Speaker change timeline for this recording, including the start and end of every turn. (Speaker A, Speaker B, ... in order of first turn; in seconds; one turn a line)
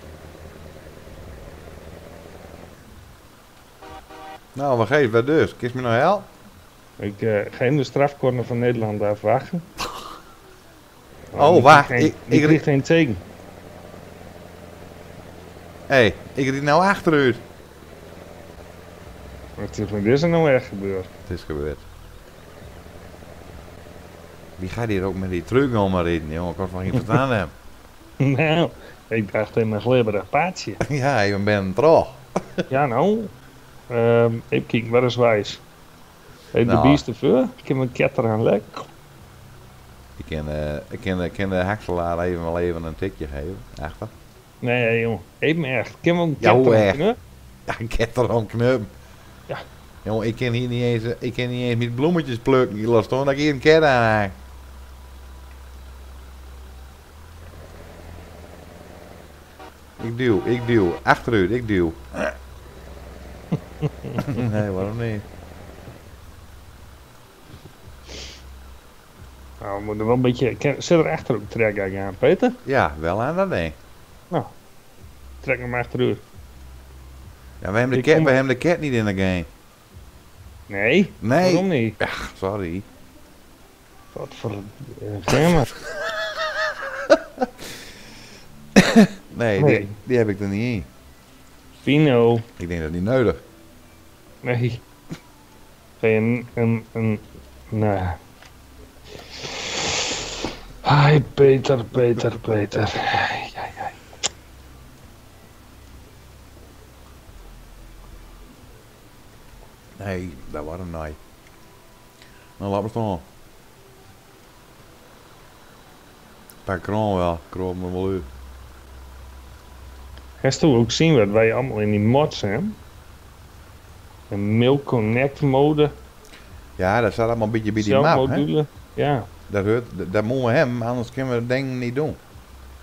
Speaker A: 4.5-6.3
Speaker B: 7.0-9.7
Speaker B: 11.3-13.2
Speaker A: 11.3-12.6
Speaker A: 15.9-17.4
Speaker B: 19.6-21.1
Speaker A: 21.3-21.9
Speaker A: 24.6-27.5
Speaker B: 28.2-30.8
Speaker A: 30.8-32.6
Speaker B: 32.7-33.3
Speaker B: 33.9-35.6
Speaker B: 36.5-38.8
Speaker A: 36.6-37.0
Speaker A: 40.2-44.1
Speaker B: 44.6-47.2
Speaker A: 46.4-47.0
Speaker A: 47.7-48.9
Speaker A: 50.0-54.3
Speaker A: 60.0-62.3
Speaker B: 64.0-64.4
Speaker A: 64.2-65.2
Speaker B: 69.6-72.6
Speaker A: 72.6-73.8
Speaker B: 75.4-76.2
Speaker A: 77.6-79.5
Speaker B: 77.9-78.3
Speaker B: 80.7-82.0
Speaker A: 81.2-82.9
Speaker B: 84.1-85.7
Speaker A: 85.7-86.2
Speaker A: 87.1-87.5
Speaker A: 88.8-90.9
Speaker B: 89.6-89.9
Speaker B: 91.8-92.5
Speaker A: 92.6-93.4
Speaker B: 94.4-94.8
Speaker B: 96.0-98.2
Speaker B: 99.3-103.9
Speaker A: 110.0-111.2
Speaker A: 112.6-113.2
Speaker A: 116.7-118.3
Speaker B: 120.4-122.8
Speaker B: 124.3-125.9
Speaker A: 126.8-128.5
Speaker B: 127.8-129.3
Speaker A: 129.5-132.2